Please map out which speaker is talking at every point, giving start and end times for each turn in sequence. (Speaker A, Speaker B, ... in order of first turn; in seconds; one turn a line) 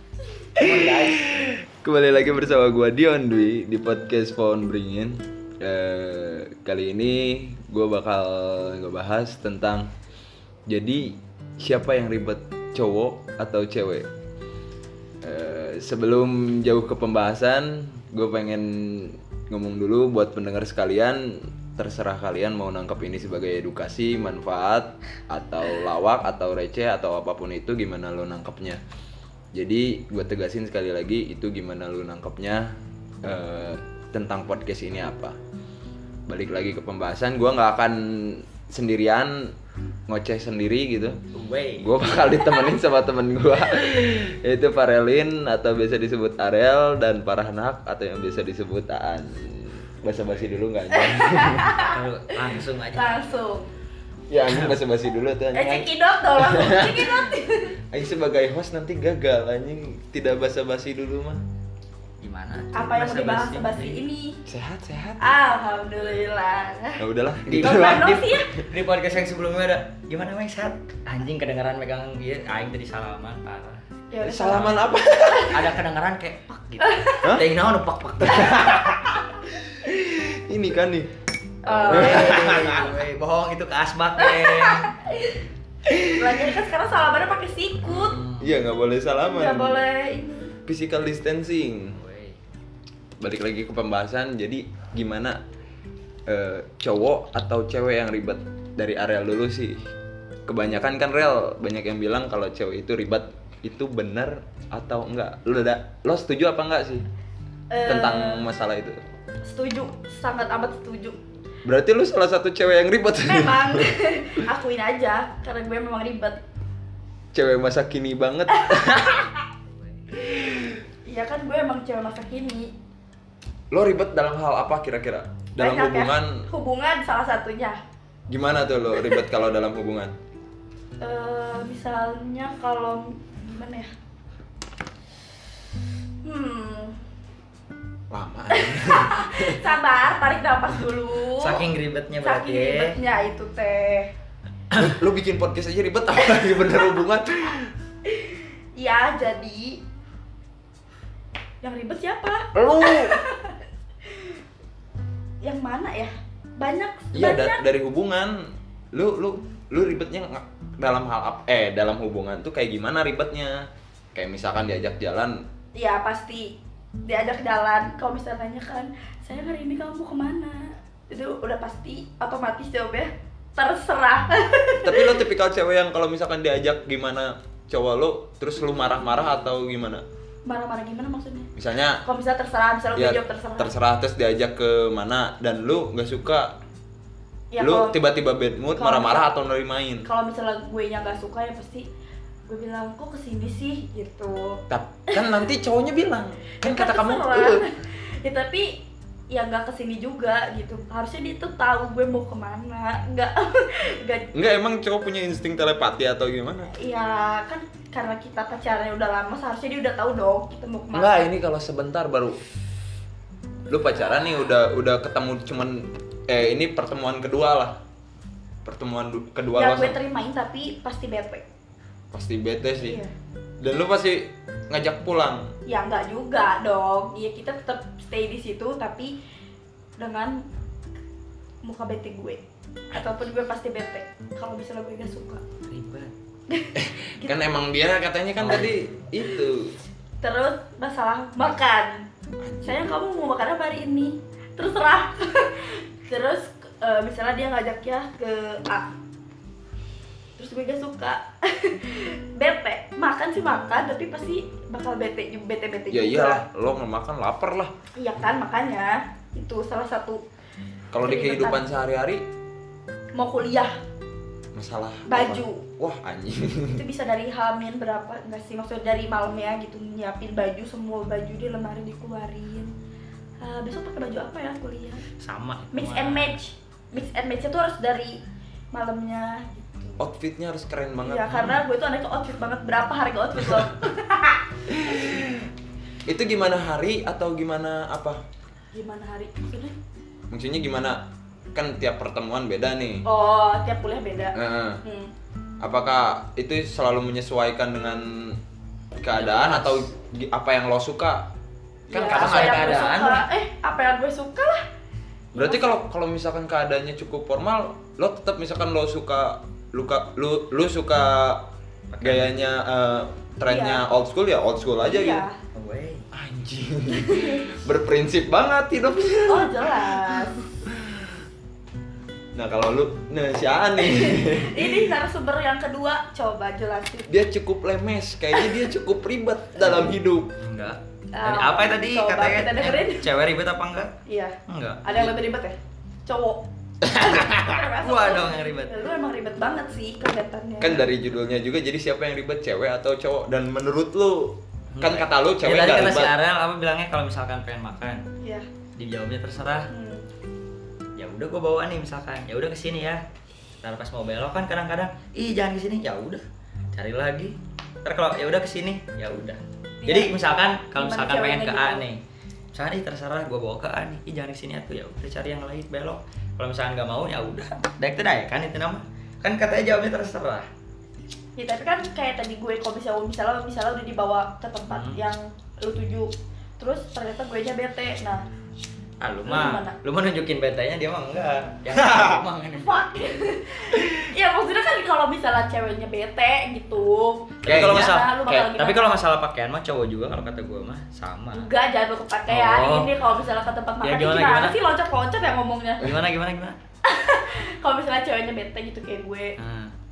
Speaker A: 0.6-1.2
Speaker B: 0.6-9.9
Speaker B: 10.7-14.1
Speaker B: 15.2-28.8
Speaker B: 29.5-35.4
Speaker B: 36.3-39.5
Speaker B: 40.1-41.2
Speaker A: 41.3-41.9
Speaker B: 41.8-51.8
Speaker C: 50.9-52.0
Speaker A: 51.9-53.3
Speaker C: 52.9-53.7
Speaker B: 54.3-57.3
Speaker A: 54.5-54.8
Speaker C: 55.5-57.8
Speaker B: 57.9-61.4
Speaker A: 62.2-64.0
Speaker C: 62.7-64.4
Speaker B: 64.5-65.2
Speaker C: 65.2-68.5
Speaker B: 67.0-68.4
Speaker A: 67.5-73.8
Speaker C: 74.1-75.5
Speaker B: 74.2-75.8
Speaker A: 75.5-79.0
Speaker C: 76.8-77.3
Speaker B: 78.2-79.2
Speaker B: 79.7-81.1
Speaker C: 81.6-83.0
Speaker A: 81.7-84.9
Speaker B: 81.9-82.8
Speaker C: 84.2-85.4
Speaker C: 86.1-88.2
Speaker A: 87.9-88.6
Speaker B: 88.4-89.8
Speaker C: 89.3-90.5
Speaker B: 90.7-92.0
Speaker A: 91.9-92.4
Speaker B: 93.2-95.4
Speaker B: 96.3-99.8
Speaker B: 100.5-107.0
Speaker C: 107.7-108.5
Speaker B: 107.8-109.0
Speaker C: 109.5-111.2
Speaker B: 111.6-114.1
Speaker C: 113.2-116.4
Speaker B: 117.3-119.3
Speaker C: 118.5-119.3
Speaker B: 120.1-120.8
Speaker C: 121.0-122.7
Speaker B: 123.7-126.5
Speaker C: 125.6-127.8
Speaker B: 128.3-130.1
Speaker C: 131.0-133.9
Speaker C: 136.2-137.0
Speaker B: 138.1-139.6
Speaker C: 138.5-141.7
Speaker A: 141.4-143.0
Speaker C: 142.2-144.1
Speaker B: 144.7-147.7
Speaker C: 148.1-149.8
Speaker C: 151.6-154.3
Speaker B: 152.5-153.2
Speaker C: 155.4-157.6
Speaker B: 157.1-165.4
Speaker C: 165.7-175.2
Speaker B: 174.8-180.0
Speaker C: 180.4-181.5
Speaker B: 181.6-182.0
Speaker C: 182.0-183.7
Speaker B: 182.9-186.6
Speaker C: 187.5-188.0
Speaker B: 187.6-190.1
Speaker C: 188.7-189.3
Speaker C: 190.0-191.9
Speaker C: 192.4-195.4
Speaker B: 194.7-197.6
Speaker C: 196.6-204.3
Speaker B: 204.3-206.7
Speaker C: 206.7-211.3
Speaker B: 210.9-212.4
Speaker B: 213.7-217.8
Speaker C: 214.0-214.5
Speaker B: 218.6-220.0
Speaker C: 219.6-221.4
Speaker B: 222.1-223.0
Speaker C: 222.8-223.1
Speaker B: 223.6-225.5
Speaker C: 225.7-229.1
Speaker C: 230.0-230.4
Speaker C: 231.6-232.4
Speaker C: 232.9-235.4
Speaker A: 235.6-236.1
Speaker C: 236.5-237.5
Speaker B: 236.8-239.7
Speaker A: 238.4-238.7
Speaker C: 240.2-242.1
Speaker B: 242.4-242.8
Speaker C: 242.6-248.9
Speaker C: 250.4-256.4
Speaker B: 255.9-257.7
Speaker C: 257.9-260.2
Speaker B: 260.9-262.2
Speaker C: 261.0-261.6
Speaker C: 263.1-263.8
Speaker B: 264.5-266.8
Speaker C: 265.1-265.6
Speaker C: 266.7-272.7
Speaker C: 273.4-275.0
Speaker A: 275.2-276.4
Speaker C: 275.7-278.2
Speaker C: 278.7-280.0
Speaker B: 280.0-281.5
Speaker C: 281.0-284.4
Speaker B: 284.7-285.5
Speaker B: 286.1-288.2
Speaker C: 288.7-289.7
Speaker B: 290.3-293.0
Speaker C: 293.0-295.1
Speaker B: 294.3-294.8
Speaker B: 295.6-298.4
Speaker B: 299.0-301.3
Speaker A: 299.1-299.9
Speaker B: 301.9-302.8
Speaker C: 301.9-304.6
Speaker A: 302.0-303.2
Speaker C: 305.3-305.8
Speaker B: 305.4-311.5
Speaker A: 311.9-312.4
Speaker B: 312.0-315.2
Speaker C: 313.5-313.8
Speaker C: 314.9-315.4
Speaker A: 315.5-316.1
Speaker B: 316.1-321.2
Speaker C: 316.9-317.6
Speaker C: 319.3-320.4
Speaker B: 322.3-324.9
Speaker C: 323.8-327.1
Speaker B: 327.1-330.4
Speaker A: 330.4-333.9
Speaker C: 331.1-333.1
Speaker C: 334.1-340.8
Speaker A: 334.5-335.1
Speaker B: 336.8-337.6
Speaker A: 337.8-338.7
Speaker B: 340.6-346.1
Speaker A: 344.7-348.0
Speaker C: 348.2-348.4
Speaker A: 348.8-349.7
Speaker C: 349.7-350.0
Speaker A: 351.0-353.0
Speaker A: 353.6-356.2
Speaker A: 356.7-362.0
Speaker C: 359.8-360.2
Speaker C: 360.7-361.8
Speaker A: 362.5-370.5
Speaker C: 371.4-378.2
Speaker A: 374.7-375.0
Speaker A: 379.0-383.2
Speaker C: 379.2-379.8
Speaker B: 381.7-382.2
Speaker C: 382.6-389.0
Speaker A: 387.4-391.5
Speaker B: 387.4-388.0
Speaker C: 391.3-395.9
Speaker A: 392.3-392.9
Speaker A: 393.8-394.5
Speaker A: 395.8-396.6
Speaker C: 396.8-399.3
Speaker A: 399.4-399.7